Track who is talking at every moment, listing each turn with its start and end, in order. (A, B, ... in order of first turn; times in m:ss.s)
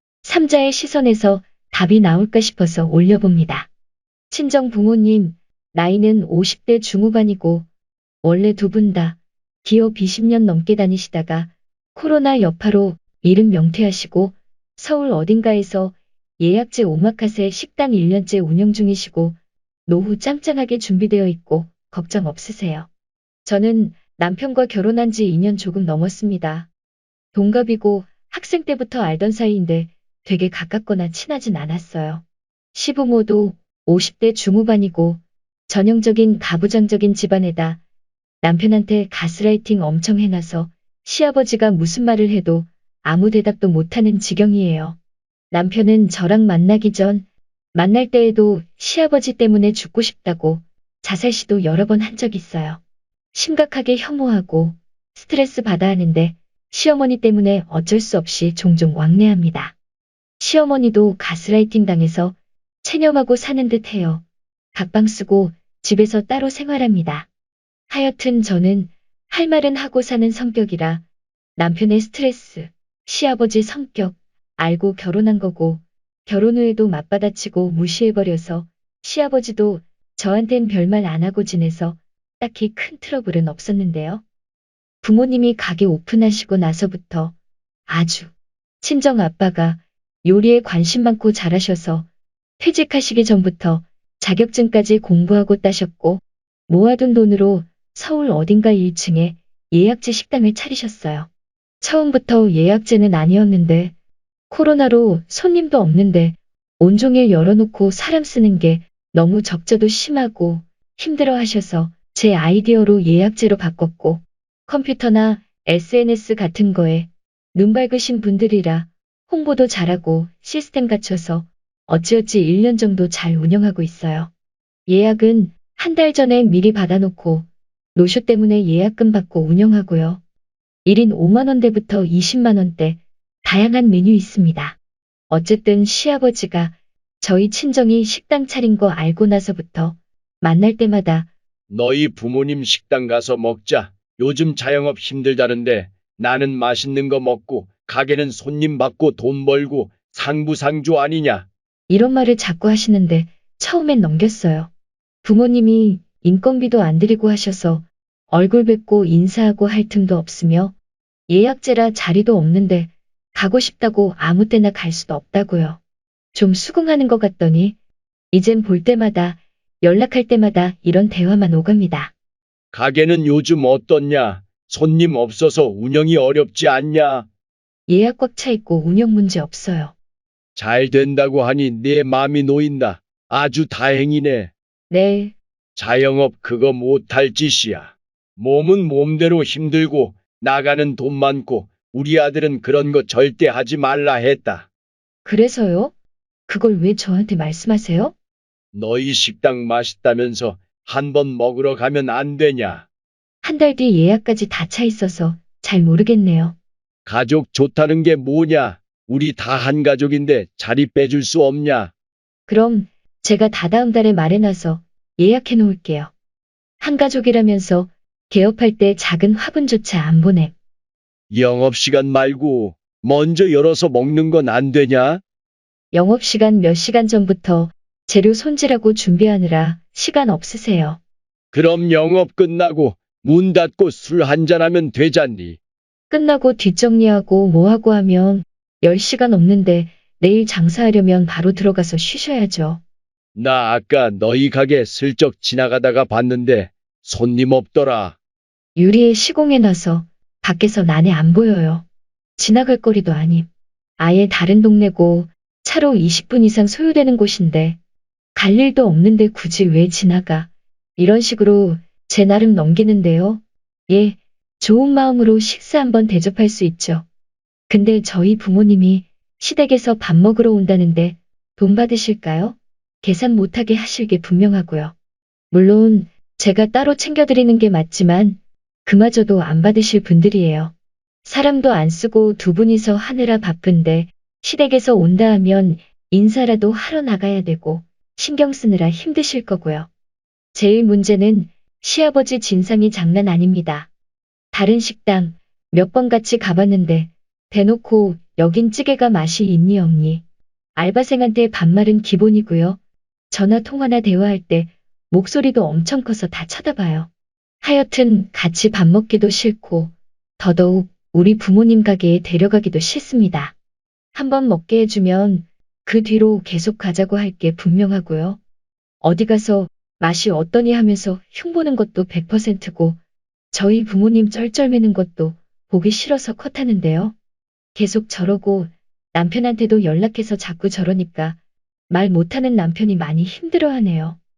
0:00.2-0:03.7 A
0:04.3-0:07.7 A
0:08.2-0:22.9 A
0:23.4-0:26.7 A
0:27.3-0:32.2 A
0:32.7-0:37.8 A
0:38.4-0:45.0 A
0:45.5-0:52.8 A
0:53.3-0:59.7 A
1:00.4-1:07.3 A
1:07.9-1:11.0 A
1:11.6-1:24.2 A
1:25.0-1:27.4 A
1:27.9-1:32.1 A
1:32.6-1:41.3 A
1:41.8-1:43.9 A
1:44.5-2:04.3 A
2:04.9-2:10.2 A
2:10.8-2:14.8 A
2:15.3-2:21.3 A
2:21.7-2:31.5 B
2:31.9-2:34.7 A
2:35.2-2:40.7 A
2:41.3-2:45.8 A
2:46.3-2:47.8 A
2:48.3-2:52.1 A
2:52.7-2:57.3 B
2:57.9-2:59.9 A
3:00.6-3:04.5 B
3:04.9-3:05.4 A
3:05.8-3:14.7 B
3:15.2-3:15.9 A
3:16.5-3:18.1 A
3:18.7-3:22.9 B
3:23.4-3:26.6 A
3:27.0-3:31.9 B
3:32.5-3:36.1 A
3:36.8-3:40.5 A
3:41.3-3:45.2 B
3:45.9-3:51.0 A
3:51.5-3:55.6 B
3:56.1-4:02.8 A
4:03.3-4:08.2 B
4:08.8-4:11.8 A
4:12.4-4:17.8 A
4:18.3-4:27.1 A
4:27.7-4:34.9 A
4:35.5-4:40.7 A
4:41.2-4:49.9 A
4:50.5-4:53.9 A
4:54.5-5:00.2 A
5:00.7-5:02.8 A
5:03.3-5:07.1 A
5:07.6-5:13.5 A
5:14.1-5:18.4 A
5:19.0-5:23.0 A
5:23.5-5:27.2 A
5:27.7-5:31.4 A
5:31.9-5:34.2 A